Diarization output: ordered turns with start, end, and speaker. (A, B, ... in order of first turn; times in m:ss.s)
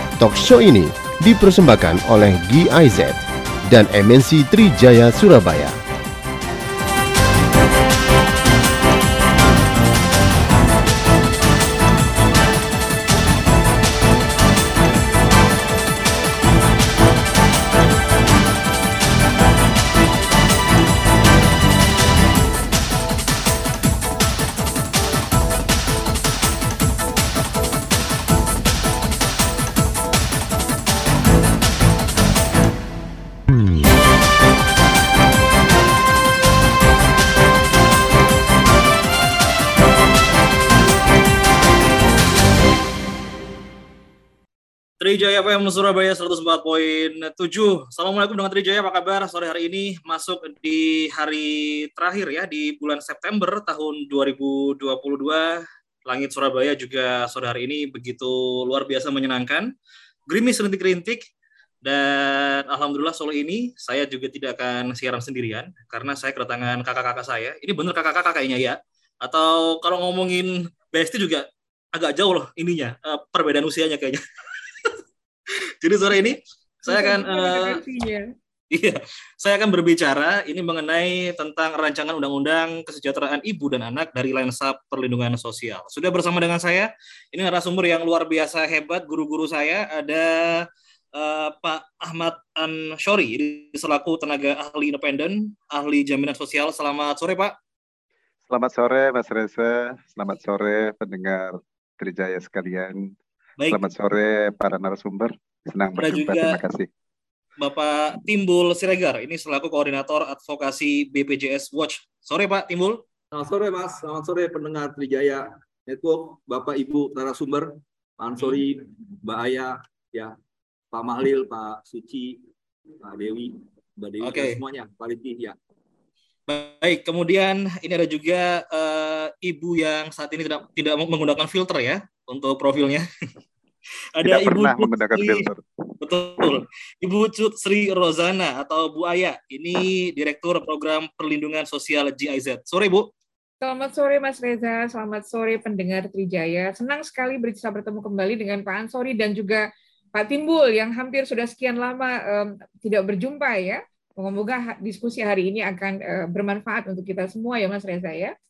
0:00.2-0:05.8 A
0:45.0-0:59.7 B
1:00.3-1:01.3 B
1:01.8-1:14.2 B
1:15.8-1:17.8 B
1:16.9-1:18.3 C
1:18.7-1:37.5 B
1:38.5-1:43.1 D
1:43.7-1:46.9 D
1:46.0-1:46.6 B
1:47.6-1:53.0 B
1:53.3-2:00.4 E
2:00.9-2:02.4 E
2:03.0-2:05.6 E
2:04.2-2:04.6 B
2:06.5-2:13.1 B
2:14.1-2:15.5 B
2:14.2-2:15.6 D
2:16.0-2:23.1 B
2:23.6-2:38.3 C